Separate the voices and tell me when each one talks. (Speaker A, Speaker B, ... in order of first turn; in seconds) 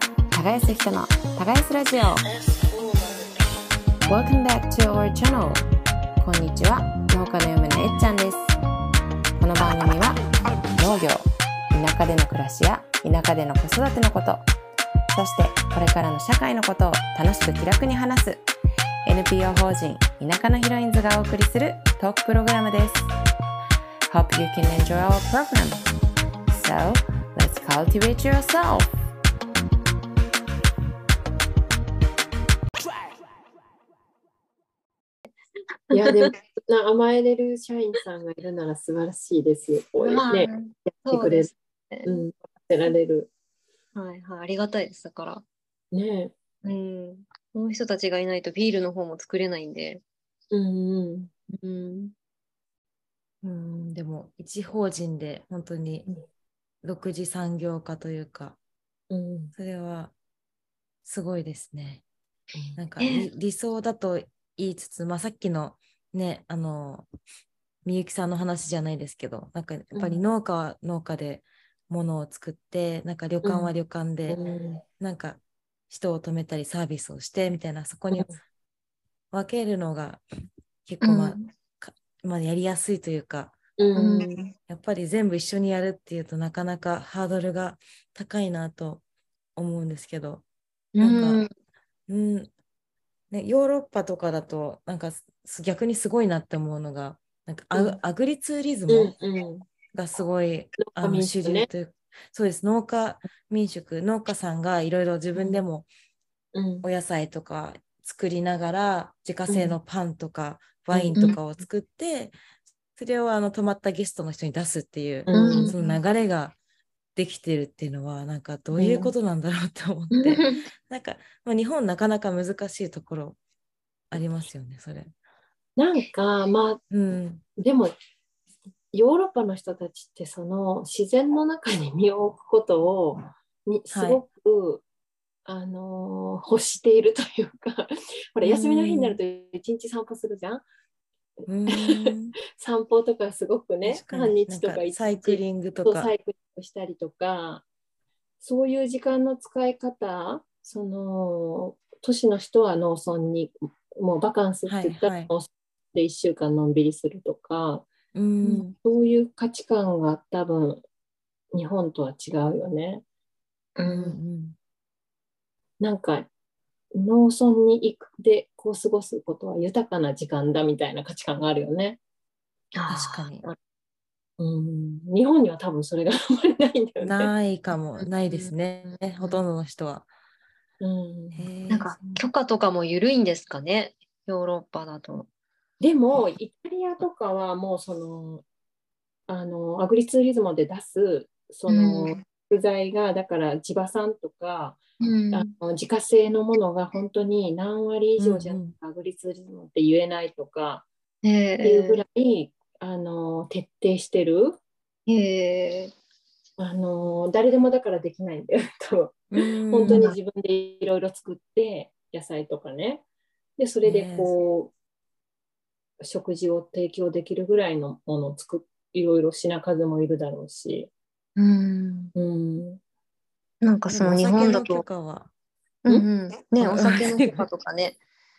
Speaker A: 0.3-2.3, 4.1-5.7, 6.2-8.5, 9.4-14.5, 15.1-18.4, 19.1-23.1, 24.1-25.8, 26.5-28.9
Speaker B: 35.9-36.3, 40.0-42.2, 44.0-45.4, 46.6-50.0, 51.5-52.1, 63.0-63.3, 81.0-81.5, 84.0-84.5, 91.0-91.5, 115.3-115.9, 120.3-120.7, 163.8-164.2, 172.8-173.3, 178.0-178.5, 181.7-185.3, 191.7-192.2, 195.0-195.5, 201.2-202.0, 205.1-205.9, 209.9-210.2, 221.4-222.1, 223.6-224.8, 225.8-228.0
Speaker C: 35.9-41.5, 42.0-43.3, 45.9-46.3, 50.5-51.3, 59.1-59.5, 69.9-70.2, 73.4-73.7, 74.3-74.8, 78.1-78.4, 83.8-84.3, 97.7-98.0, 98.9-99.7, 100.8-101.7, 105.4-105.6, 106.5-106.9, 109.5-109.8, 110.9-111.3, 115.3-115.8, 118.7-119.1, 125.8-126.8, 127.6-127.9, 128.9-134.8, 135.5-140.6, 141.7-147.7, 148.4-157.9, 158.4-160.8, 161.5-163.0, 165.8-166.3, 166.9-172.0, 174.4-177.3, 180.8-181.5, 185.8-188.4, 189.3-194.8, 195.3-200.9, 201.6-204.6, 206.6-213.0, 213.6-214.7, 216.0-220.9, 222.2-222.8
Speaker D: 53.4-56.1, 56.8-58.6, 59.5-60.1, 61.0-62.0, 62.8-67.1, 67.8-74.4, 75.0-75.4, 75.9-78.3, 79.3-80.2, 80.8-83.6, 84.7-89.0, 89.6-90.4, 91.0-91.4, 92.1-92.5, 93.3-99.2, 99.9-105.9, 106.8-112.3, 113.0-116.6, 117.2-123.4, 124.1-125.1, 126.9-127.4, 133.9-134.2, 138.4-139.2, 141.5-142.4, 143.8-146.1, 154.7-155.3, 158.2-158.8, 163.9-164.6, 172.9-173.5, 177.0-180.1, 181.3-182.0, 198.2-198.7, 209.3-210.1, 213.8-214.3, 223.9-225.3, 226.6-227.4